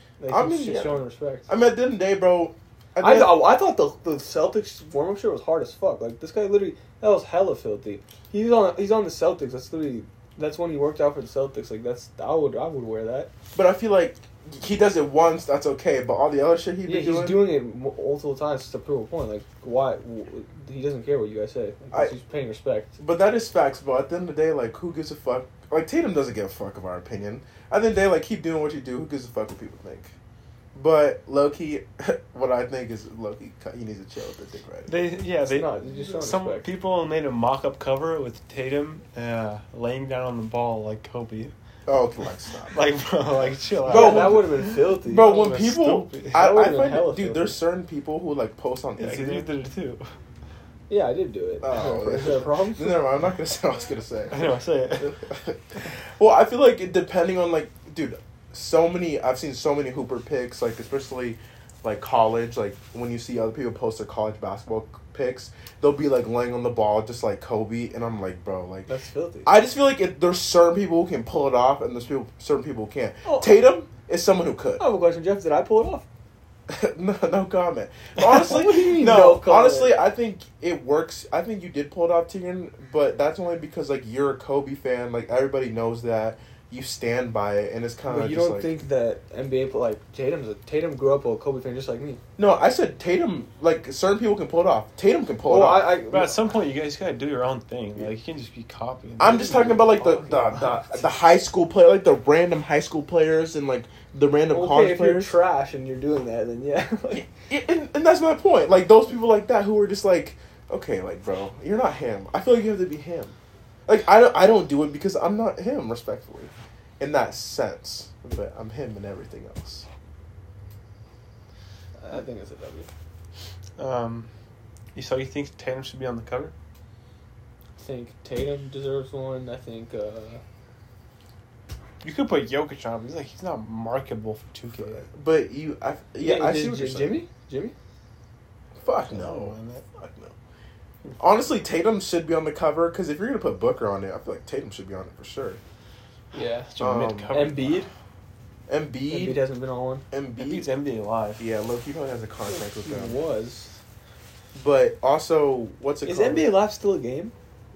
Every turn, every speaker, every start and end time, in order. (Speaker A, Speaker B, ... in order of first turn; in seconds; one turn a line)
Speaker A: 0.2-1.5
Speaker B: 0.3-3.5
Speaker A: 3.0-13.3
Speaker B: 13.6-17.5
Speaker A: 16.9-23.0
Speaker B: 23.0-30.1
Speaker B: 30.7-35.0
Speaker C: 34.9-41.5
Speaker A: 35.5-36.7
Speaker B: 41.9-42.9
Speaker C: 42.7-46.5
Speaker A: 43.9-45.5
Speaker B: 43.9-49.5
Speaker A: 46.3-47.6
Speaker C: 49.0-50.1
Speaker A: 50.9-53.1
Speaker B: 51.6-68.9
Speaker C: 54.3-55.2
Speaker A: 68.9-69.5
Speaker B: 69.5-74.8
Speaker A: 73.2-73.6
Speaker A: 74.8-76.0
Speaker B: 76.7-88.7
Speaker A: 78.2-80.0
Speaker A: 88.1-92.2
Speaker B: 92.4-95.9
Speaker A: 95.5-96.5
Speaker C: 96.1-99.9
Speaker B: 99.2-105.4
Speaker A: 99.2-100.8
Speaker A: 104.5-107.3
Speaker B: 107.1-113.4
Speaker B: 113.9-119.9
Speaker A: 122.0-122.9
Speaker C: 123.8-124.3
Speaker C: 125.0-126.5
Speaker A: 127.8-130.4
Speaker C: 132.0-135.1
Speaker B: 134.9-137.2
Speaker A: 136.2-137.7
Speaker B: 138.8-140.3
Speaker C: 139.1-139.8
Speaker B: 141.2-145.6
Speaker A: 146.3-147.9
Speaker C: 146.7-147.7
Speaker B: 146.8-147.4
Speaker B: 148.7-149.4
Speaker A: 149.1-150.0
Speaker B: 150.1-150.7
Speaker C: 150.4-151.5
Speaker B: 151.4-153.2
Speaker A: 152.5-153.8
Speaker B: 154.5-156.6
Speaker A: 156.1-157.3